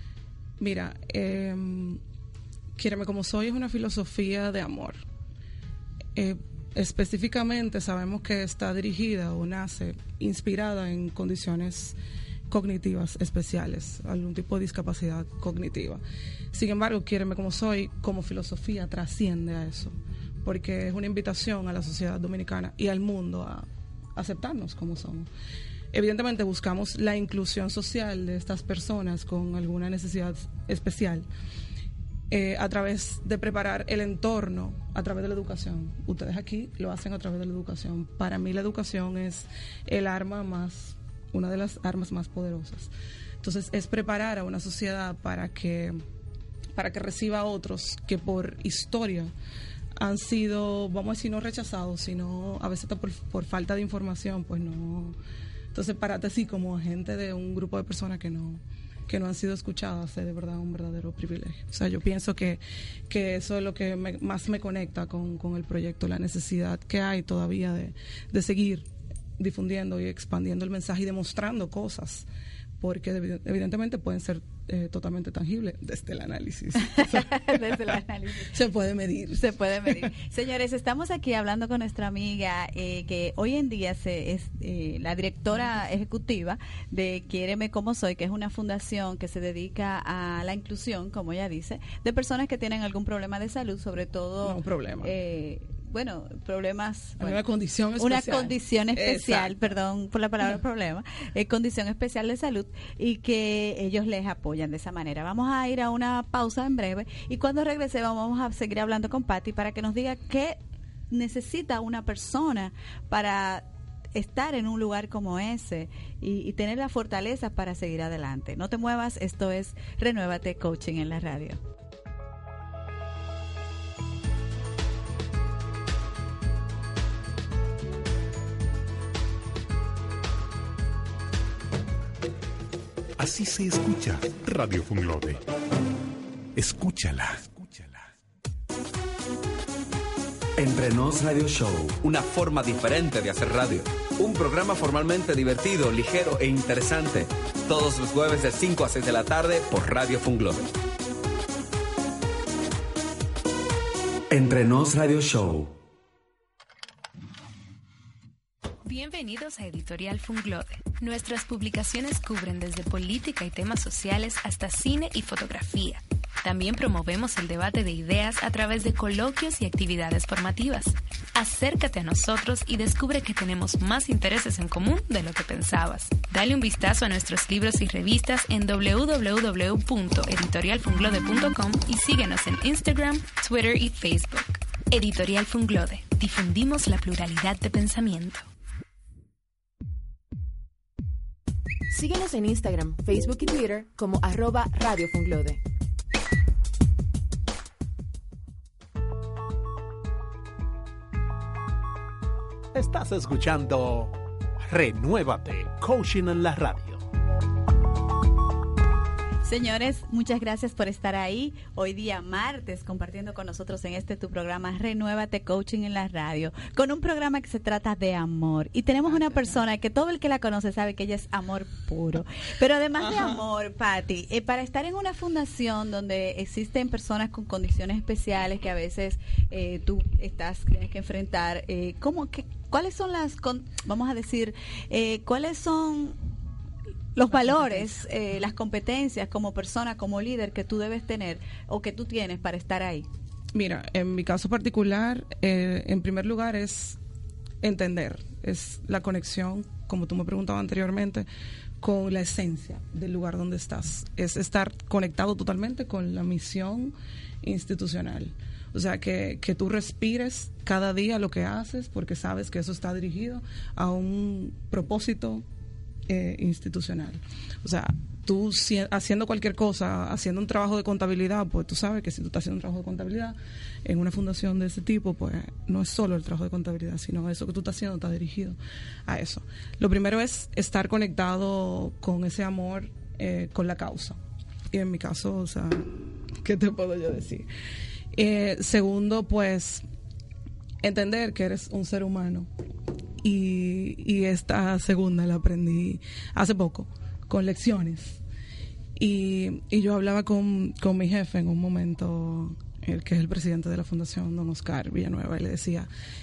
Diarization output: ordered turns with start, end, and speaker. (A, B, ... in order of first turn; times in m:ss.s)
0:00.6-0:02.0 A
0:02.8-0:05.0 A
0:06.2-0:12.0 A
0:12.5-0:25.3 A
0:25.9-0:31.3 A
0:32.3-0:46.0 A
0:46.8-0:49.3 A
0:50.0-0:55.2 A
0:55.7-1:08.9 A
1:09.4-1:12.3 A
1:12.8-1:17.6 A
1:16.8-1:18.5 B
1:18.5-1:20.1 A
1:19.3-1:37.4 B
1:34.4-1:35.1 A
1:37.2-1:39.7 A
1:38.0-1:50.6 B
1:51.1-2:01.6 B
2:13.2-2:15.4 C
2:16.6-2:18.1 C
2:20.6-2:22.2 D
2:22.1-2:30.6 E
2:34.3-2:35.8 D
2:38.8-3:08.4 F
3:11.9-3:15.6 G
3:22.7-3:27.0 H
3:29.4-3:56.2 B
3:39.1-3:39.6 A
3:43.0-3:43.4 A
3:57.2-4:03.1 B
3:57.3-3:57.9 A
4:03.5-4:07.0 A
4:07.6-4:11.3 A
4:11.8-4:25.4 A
4:26.1-4:44.2 A
4:44.7-4:45.9 A
4:46.4-4:47.5 A
4:48.1-4:49.8 A
4:50.8-4:52.5 A
4:53.2-4:58.2 A
4:59.0-5:05.9 A